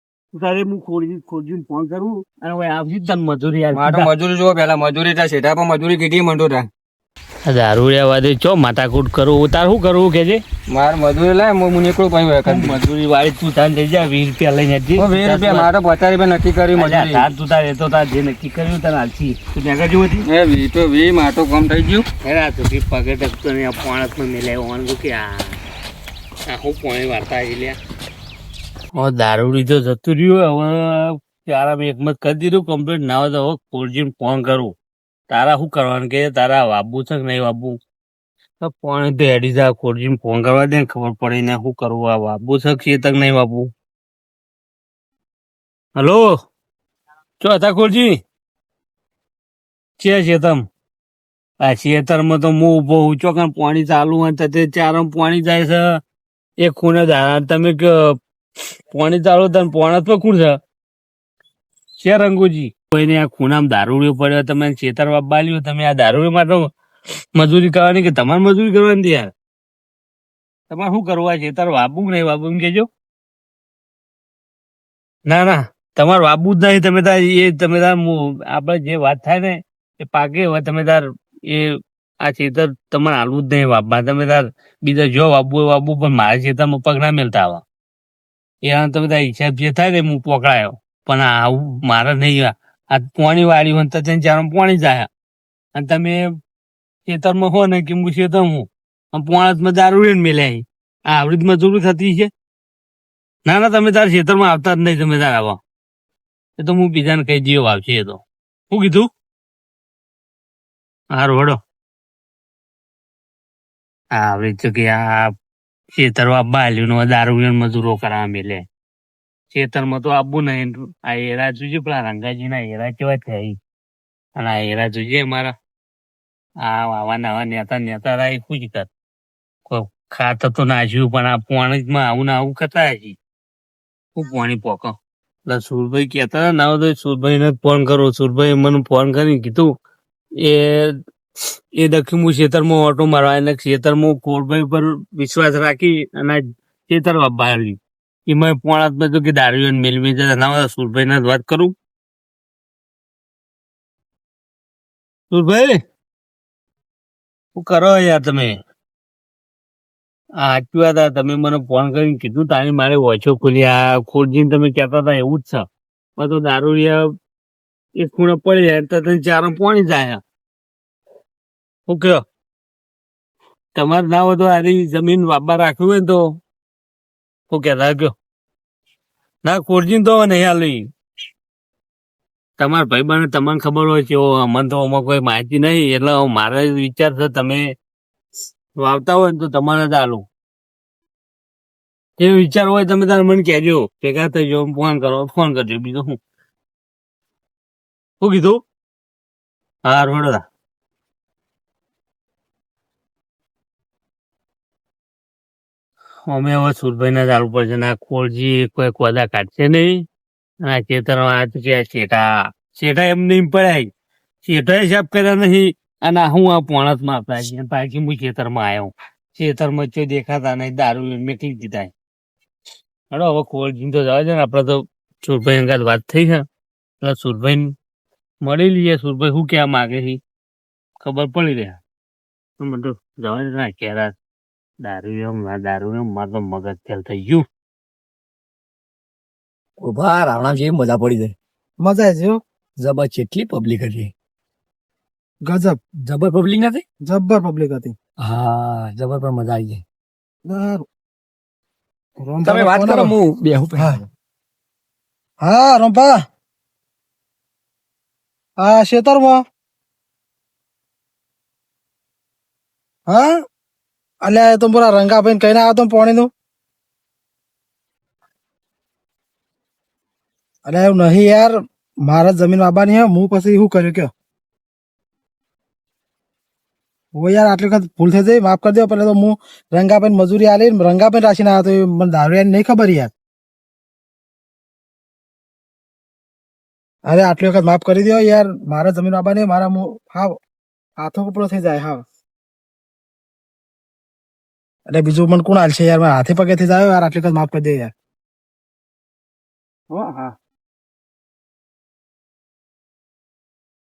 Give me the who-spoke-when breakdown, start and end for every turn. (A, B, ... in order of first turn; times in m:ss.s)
0:00.3-0:04.1 A
0:03.7-0:06.7 B
0:07.5-0:10.4 A
0:10.7-0:12.8 B
0:12.5-0:15.7 A
0:15.0-0:17.2 B
0:16.8-0:20.3 A
0:20.3-0:22.1 B
0:22.2-0:25.6 A
0:26.5-0:27.8 A
0:29.0-0:34.8 A
0:35.3-0:37.8 A
0:38.6-0:43.7 A
0:46.0-0:46.4 A
0:47.4-0:48.2 A
0:50.0-0:50.7 A
0:51.6-0:56.0 A
0:56.6-0:58.2 A
0:58.9-1:00.6 A
1:02.0-1:06.7 A
1:07.4-1:09.3 A
1:10.7-1:12.9 A
1:15.3-1:27.6 A
1:28.6-1:35.1 A
1:35.8-1:36.3 A
1:37.1-1:42.3 A
1:43.5-1:45.6 A
1:46.6-1:49.1 A
1:51.1-1:51.6 A
1:54.1-1:55.3 A
1:56.0-1:58.6 A
1:59.5-2:03.6 A
2:04.4-2:05.6 A
2:06.6-2:08.9 A
2:09.7-2:13.2 A
2:14.2-2:15.0 A
2:15.5-2:19.8 A
2:20.4-2:21.0 A
2:21.8-2:31.7 A
2:35.3-2:35.8 A
2:37.6-2:38.6 A
2:40.4-2:45.6 A
2:46.2-2:47.1 A
2:48.0-2:50.2 A
2:51.9-2:52.2 A
2:53.8-2:56.4 A
2:57.5-2:58.2 A
2:59.4-3:00.9 A
3:02.6-3:07.7 A
3:08.8-3:10.2 A
3:12.2-3:16.2 A
3:18.2-3:18.6 A
3:19.9-3:20.4 A
3:26.3-3:30.0 A
3:30.6-3:33.9 A
3:34.4-3:41.9 A
3:43.1-3:46.4 A
3:47.0-3:47.7 A
3:48.4-3:50.2 A
3:51.0-3:51.8 A
3:52.6-3:54.1 A
3:54.8-3:57.4 A
3:59.8-4:01.4 C
4:01.8-4:02.4 D
4:02.8-4:04.1 C
4:05.5-4:05.8 D
4:06.1-4:06.8 C
4:07.0-4:08.0 D
4:08.2-4:09.8 C
4:10.5-4:10.9 D
4:12.2-4:13.1 D
4:12.4-4:14.1 C
4:15.4-4:16.1 D
4:18.6-4:19.4 D
4:23.1-4:23.4 D
4:24.2-4:26.3 D
4:30.7-4:34.1 D
4:37.2-4:43.1 D
4:47.1-4:50.4 D
4:51.0-4:52.0 D
4:54.9-4:57.9 D
4:59.9-5:00.3 D